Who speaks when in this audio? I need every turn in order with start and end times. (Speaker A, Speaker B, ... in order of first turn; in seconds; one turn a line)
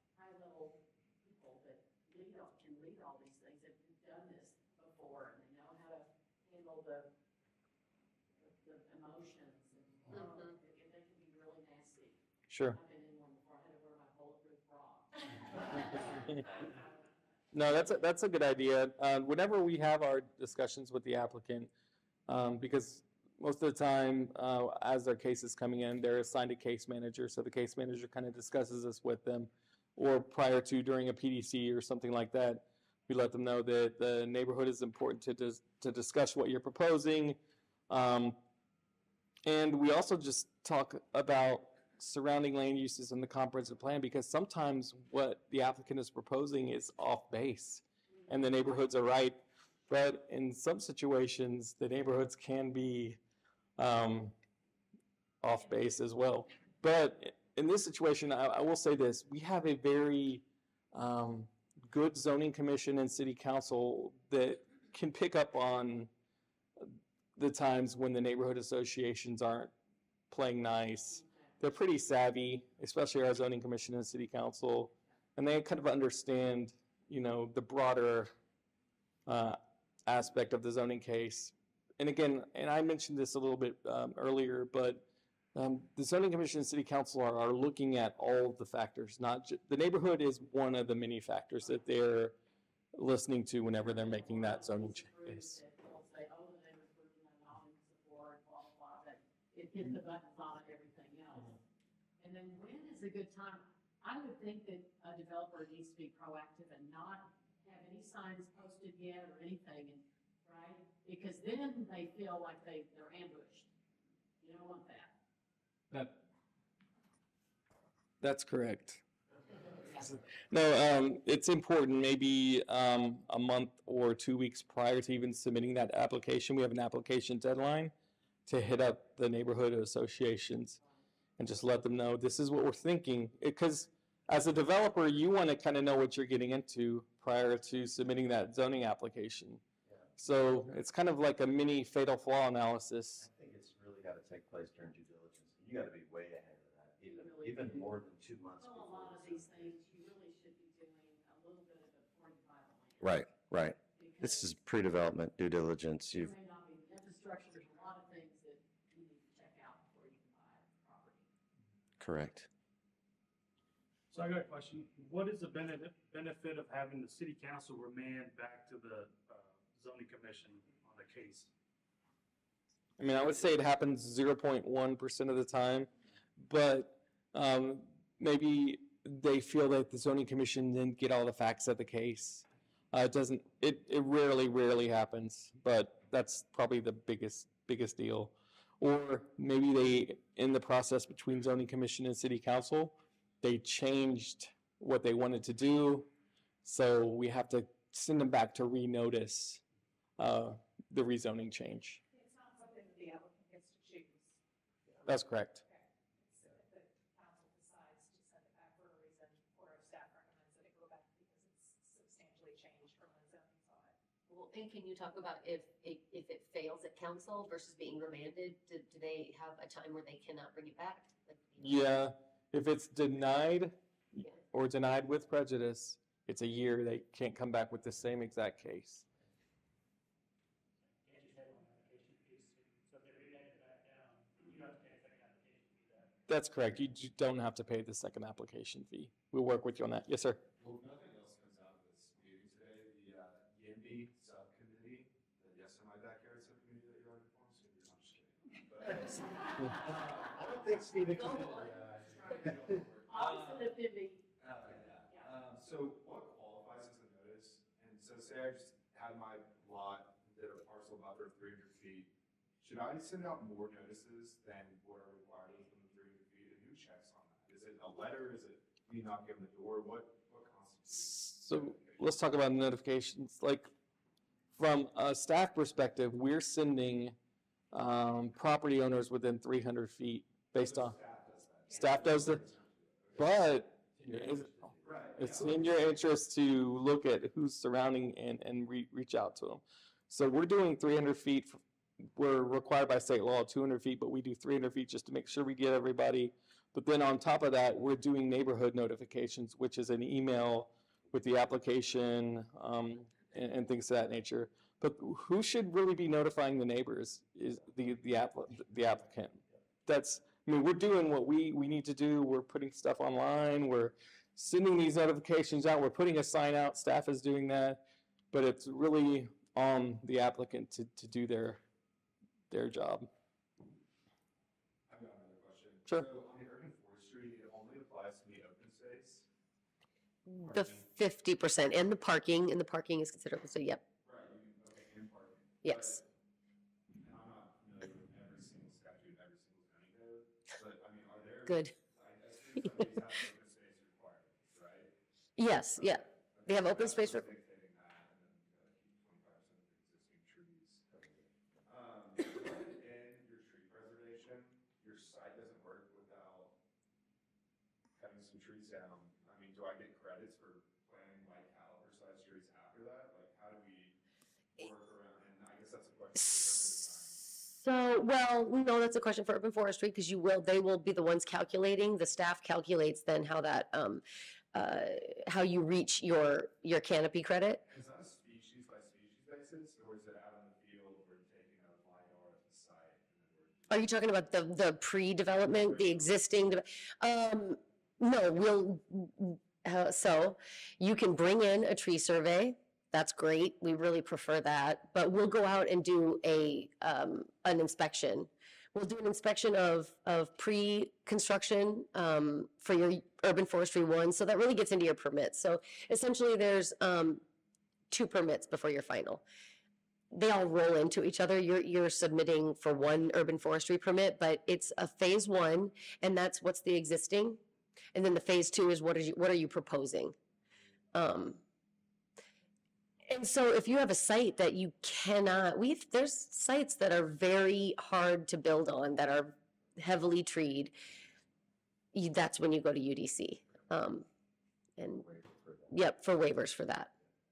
Speaker A: 0.1-7.1
Speaker A: 8.4-12.2
Speaker B: 12.5-12.8
Speaker A: 12.7-16.9
Speaker B: 17.5-21.7
Speaker B: 22.3-37.4
Speaker B: 37.9-38.4
Speaker B: 39.5-53.2
Speaker B: 53.8-54.3
Speaker B: 55.4-66.1
Speaker B: 66.8-69.7
Speaker B: 70.3-78.3
Speaker B: 79.3-85.0
Speaker B: 85.5-92.4
Speaker B: 92.9-95.6
Speaker A: 93.8-101.6
Speaker A: 102.2-113.7
Speaker A: 114.4-115.1
Speaker B: 115.9-116.2
Speaker B: 118.2-119.0
Speaker B: 120.0-127.9
Speaker B: 128.5-130.8
Speaker B: 131.4-139.6
Speaker B: 140.2-143.3
Speaker C: 143.2-149.8
Speaker A: 147.1-148.0
Speaker A: 148.6-153.3
Speaker C: 153.0-156.3
Speaker A: 154.0-154.6
Speaker A: 156.1-161.3
Speaker C: 162.0-162.5
Speaker D: 164.1-171.5
Speaker B: 173.0-196.1
Speaker B: 196.7-199.6
Speaker B: 200.2-202.0
Speaker E: 202.1-204.4
Speaker B: 205.1-205.6
Speaker E: 205.7-214.0
Speaker F: 214.3-221.7
Speaker B: 221.6-229.1
Speaker D: 231.0-236.2
Speaker B: 236.3-240.4
Speaker G: 240.6-253.6
Speaker C: 250.5-251.7
Speaker A: 253.1-254.3
Speaker G: 254.4-272.0
Speaker B: 270.9-273.7
Speaker B: 274.6-277.2
Speaker B: 277.7-281.0
Speaker G: 280.6-283.3
Speaker B: 281.7-282.4
Speaker B: 283.2-291.6
Speaker G: 284.6-285.8
Speaker B: 292.2-321.6
Speaker B: 322.5-323.1
Speaker G: 324.9-329.3
Speaker F: 330.3-333.8
Speaker G: 330.5-330.8
Speaker G: 334.0-336.1
Speaker F: 335.6-336.0
Speaker G: 337.0-344.9
Speaker F: 341.5-341.7
Speaker F: 345.4-347.3
Speaker G: 345.7-351.1
Speaker G: 351.6-356.5
Speaker G: 358.0-364.0
Speaker G: 364.6-367.3
Speaker F: 367.4-377.6
Speaker G: 377.7-383.9
Speaker F: 383.7-407.2
Speaker G: 385.5-386.1
Speaker F: 407.9-409.2
Speaker F: 410.1-417.4
Speaker F: 417.9-420.1
Speaker F: 420.9-421.4
Speaker F: 423.1-430.8
Speaker F: 431.9-434.1
Speaker F: 434.8-435.1
Speaker F: 435.7-436.9